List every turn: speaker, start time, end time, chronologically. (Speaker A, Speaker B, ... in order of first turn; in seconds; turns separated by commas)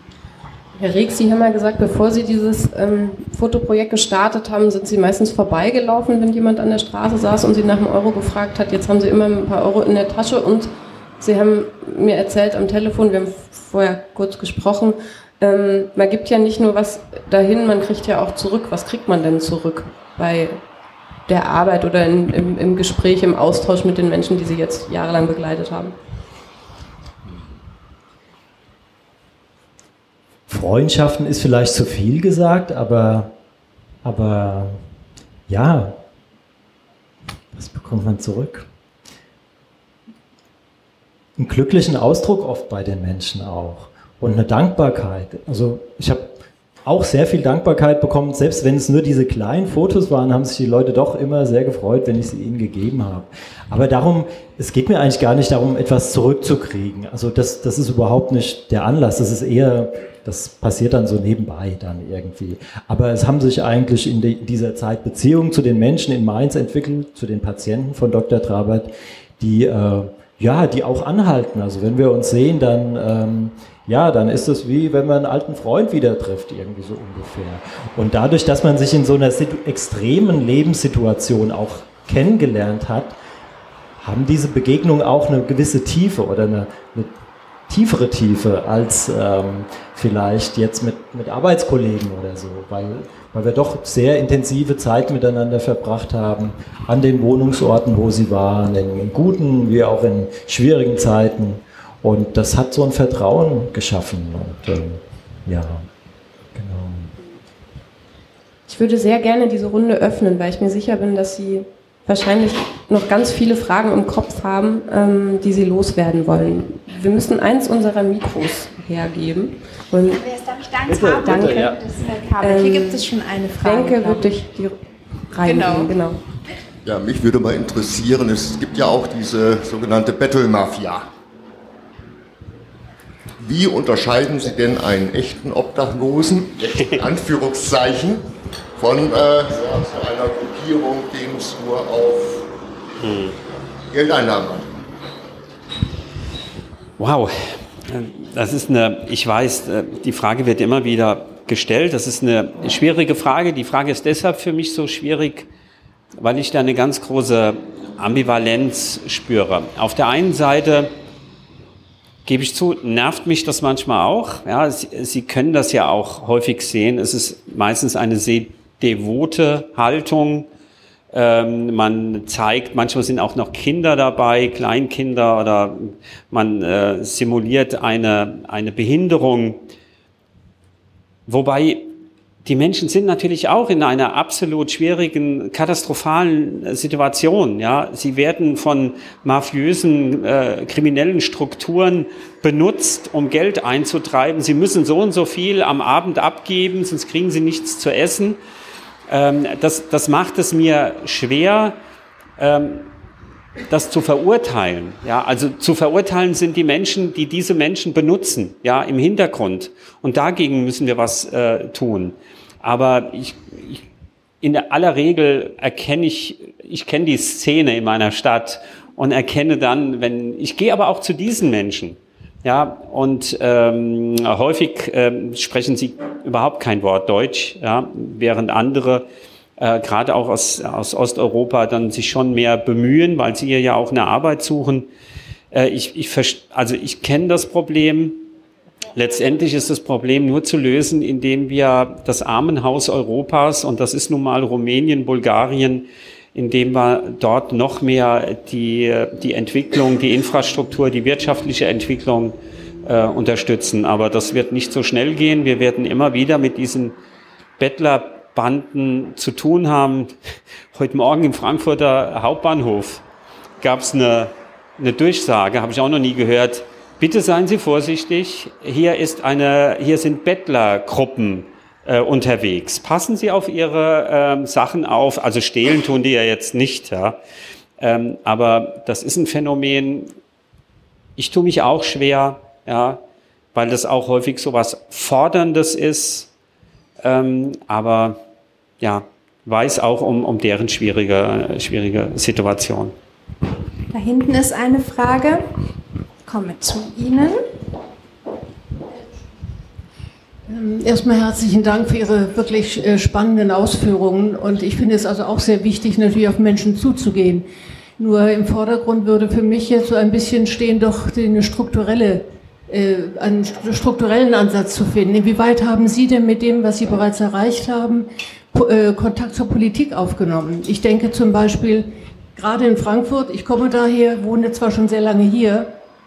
Speaker A: 0.8-20.6, Speaker A: 21.3-25.9, Speaker B: 30.5-33.3, Speaker B: 34.0-34.8, Speaker B: 35.5-36.0, Speaker B: 37.5-38.7, Speaker B: 41.4-83.2, Speaker B: 84.0-87.1, Speaker B: 87.7-105.9, Speaker B: 106.5-107.1, Speaker A: 108.7-120.2, Speaker C: 120.1-124.4, Speaker B: 120.9-121.8, Speaker A: 121.2-121.8, Speaker A: 122.4-123.0, Speaker A: 123.6-124.8, Speaker A: 125.3-126.2, Speaker C: 125.4-125.9, Speaker D: 126.8-131.1, Speaker D: 133.4-142.5, Speaker E: 143.0-143.4, Speaker D: 143.9-144.8, Speaker E: 147.0-155.5, Speaker E: 156.2-160.9, Speaker E: 162.3-170.5, Speaker E: 171.1-179.6, Speaker E: 181.3-198.4, Speaker E: 199.1-201.8, Speaker E: 202.4-202.9, Speaker E: 203.7-213.8, Speaker E: 214.4-229.1, Speaker E: 229.6-234.9, Speaker E: 235.5-238.3, Speaker E: 238.9-257.0, Speaker E: 257.6-260.1, Speaker E: 260.7-263.0, Speaker E: 263.6-277.2, Speaker E: 277.8-280.1, Speaker E: 281.2-283.0, Speaker E: 283.5-286.3, Speaker E: 287.0-288.2, Speaker E: 288.8-292.9, Speaker C: 293.9-295.4, Speaker C: 296.3-297.4, Speaker F: 300.5-325.8